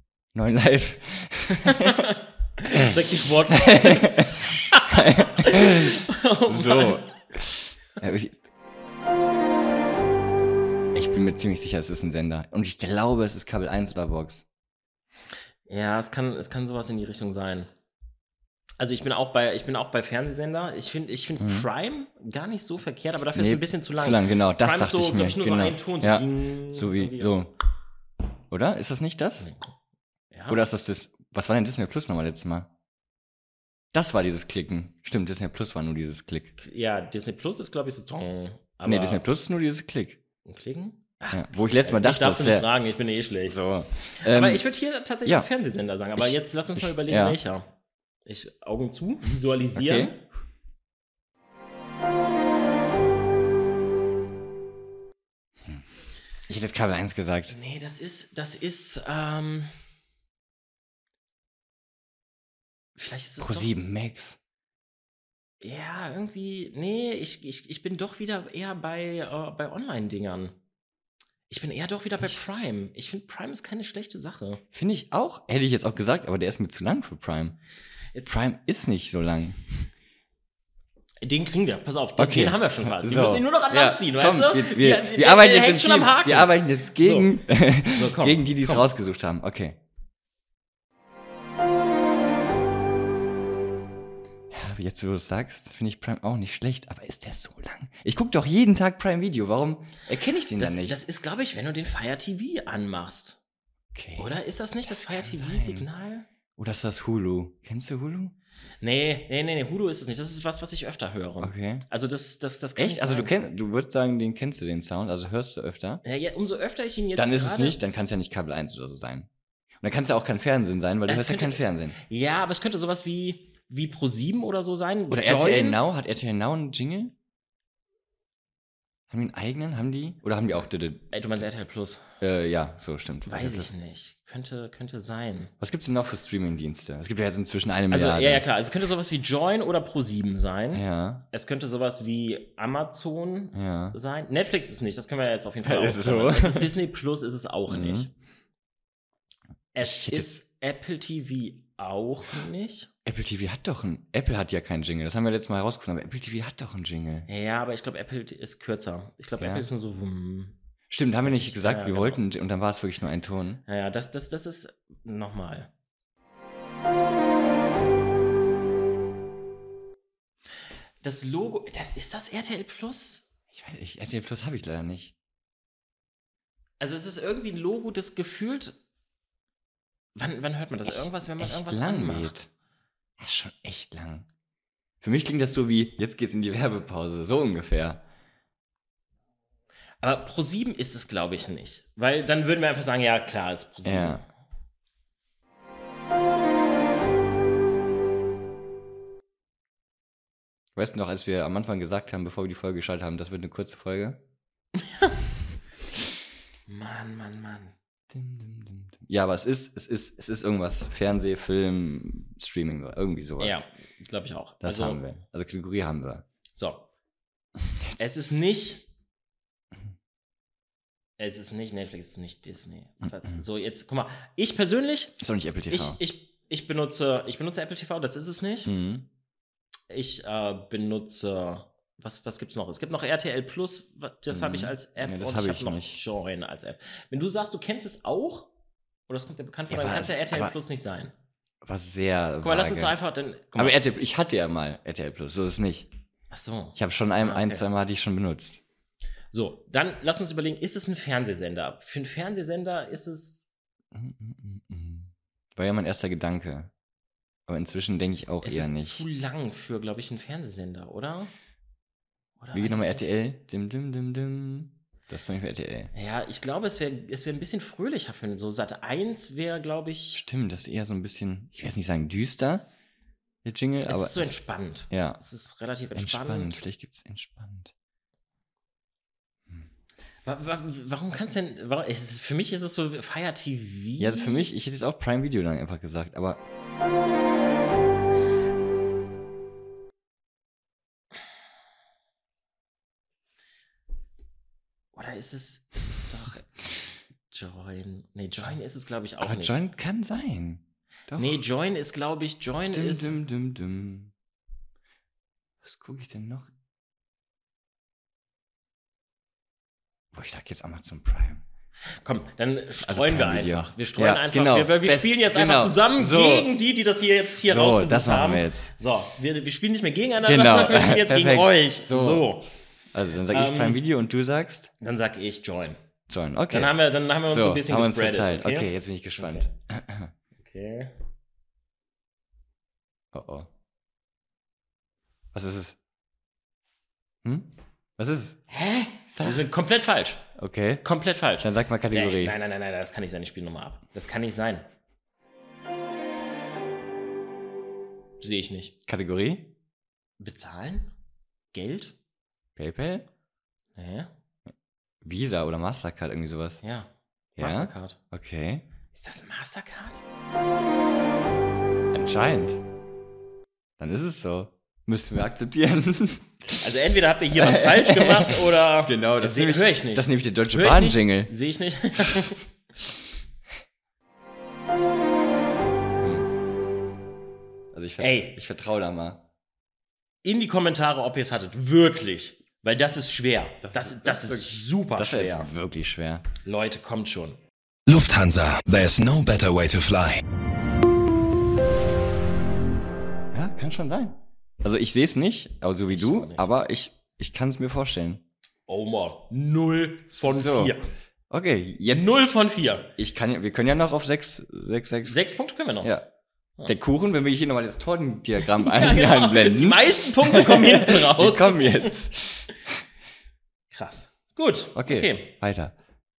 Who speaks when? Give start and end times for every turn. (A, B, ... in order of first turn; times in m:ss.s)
0:00.3-0:02.1 A
0:01.5-0:07.1 B
0:02.6-0:03.0 A
0:03.5-0:08.4 A
0:10.9-0:14.4 A
0:15.6-0:17.7 B
0:18.8-0:27.4 B
0:21.4-0:21.7 A
0:23.3-0:27.5 A
0:28.5-0:29.5 A
0:29.4-0:29.7 B
0:30.3-0:30.6 B
0:30.5-0:32.7 A
0:33.9-0:36.6 A
0:36.6-0:39.2 B
0:38.8-0:40.2 A
0:40.4-0:43.6 B
0:41.3-0:42.7 A
0:43.4-0:44.6 A
0:44.2-0:47.7 B
0:46.2-0:47.4 A
0:48.2-0:50.2 B
0:49.8-0:50.1 A
0:56.5-0:57.5 A
0:57.5-0:59.7 B
1:03.0-1:03.7 B
1:03.4-1:04.4 A
1:05.6-1:10.5 B
1:11.5-1:14.6 B
1:12.2-1:12.6 A
1:14.7-1:17.6 A
1:18.2-1:19.9 A
1:21.2-1:27.3 B
1:22.2-1:29.8 A
1:27.9-1:28.9 B
1:34.5-1:41.0 A
1:40.6-1:43.4 B
1:43.9-1:44.3 A
1:44.2-1:46.3 B
1:44.8-1:45.9 A
1:46.6-1:48.3 A
1:48.8-1:53.3 B
1:51.4-1:51.8 A
1:52.8-1:56.0 A
1:56.0-1:57.8 B
1:57.2-1:59.3 A
1:59.8-2:02.0 A
2:01.1-2:05.8 B
2:05.1-2:07.1 A
2:09.1-2:11.1 A
2:11.1-2:12.0 B
2:12.2-2:13.7 A
2:13.2-2:15.5 B
2:15.6-2:18.4 A
2:17.9-2:28.1 B
2:20.7-2:21.2 A
2:23.5-2:24.0 A
2:25.6-2:26.7 A
2:27.7-2:28.1 A
2:29.7-2:32.9 B
2:29.8-2:30.4 A
2:33.0-2:37.3 A
2:37.3-2:40.5 B
2:39.4-2:39.7 A
2:40.9-2:43.6 A
2:41.2-2:42.2 B
2:43.7-2:45.7 B
2:51.0-2:53.2 B
2:53.5-2:55.1 A
2:56.8-2:58.8 B
3:00.1-3:02.3 B
3:00.9-3:02.5 A
3:03.2-3:04.3 A
3:05.0-3:08.0 A
3:10.0-3:14.2 B
3:13.8-3:14.2 A
3:20.8-3:24.2 A
3:24.8-3:25.2 B
3:26.7-3:27.7 B
3:28.1-3:33.7 A
3:33.4-3:35.0 B
3:34.6-3:36.2 A
3:36.5-3:36.9 B
3:37.6-3:38.0 A
3:38.0-3:38.9 B
3:41.2-3:48.7 B
3:43.0-3:43.4 A
3:45.2-3:46.0 A
3:48.6-3:49.1 A
3:49.9-3:58.5 B
3:54.3-3:56.0 A
3:59.1-4:01.1 B
3:59.7-4:00.5 A
4:01.6-4:03.0 A
4:02.4-4:03.8 B
4:03.5-4:05.9 A
4:06.3-4:07.6 B
4:06.8-4:08.6 A
4:09.3-4:13.5 B
4:13.9-4:16.7 A
4:17.5-4:19.0 A
4:18.4-4:21.3 B
4:22.4-4:23.1 B
4:22.5-4:25.9 A
4:25.9-4:30.2 B
4:30.1-4:32.6 A
4:33.4-4:34.3 A
4:33.8-4:36.6 B
4:34.9-4:35.2 A
4:35.9-4:37.7 A
4:40.2-4:44.5 B
4:44.0-4:46.4 A
4:54.9-4:56.5 B
4:57.3-4:59.6 B
4:59.2-5:01.4 A
5:01.2-5:03.2 B
5:02.7-5:04.1 A
5:05.6-5:06.5 A
5:10.1-5:11.4 A
5:12.0-5:22.5 B
5:12.8-5:16.5 A
5:17.4-5:18.7 A
5:20.2-5:22.3 A
5:22.9-5:24.7 A
5:23.3-5:23.8 B
5:24.8-5:25.8 B
5:26.1-5:30.1 A
5:26.5-5:29.5 B
5:30.4-5:30.9 B
5:33.1-5:33.5 A
5:35.3-5:35.8 A
5:37.2-5:38.4 A
5:38.5-5:40.3 B
5:39.1-5:39.5 A
5:40.4-5:40.8 A
5:40.8-5:44.6 B
5:41.4-5:42.4 A
5:48.2-5:48.7 B
5:48.9-5:49.5 A
5:50.2-5:50.9 B
5:51.5-5:51.9 B
5:52.6-5:53.0 A
5:53.7-5:54.1 B
5:55.0-5:56.6 A
5:56.6-5:58.0 B
5:57.4-5:58.6 A
5:58.9-6:00.0 B
6:01.9-6:02.6 A
6:03.8-6:06.6 A
6:06.6-6:12.4 B
6:07.3-6:11.3 A
6:16.0-6:16.3 A
6:17.7-6:19.2 A
6:18.0-6:18.4 B
6:20.2-6:25.5 B
6:23.6-6:26.2 A
6:26.4-6:27.4 B
6:27.9-6:30.2 C
6:33.3-6:38.2 A
6:35.9-6:36.5 B
6:38.7-6:40.9 B
6:40.1-6:40.7 A
6:41.3-6:42.2 A
6:41.9-6:42.9 B
6:43.0-6:45.2 A
6:45.0-6:45.9 B
6:45.8-6:46.0 A
6:46.6-6:52.8 A
6:48.4-6:51.9 B
6:53.7-6:55.3 B
6:54.7-6:55.7 A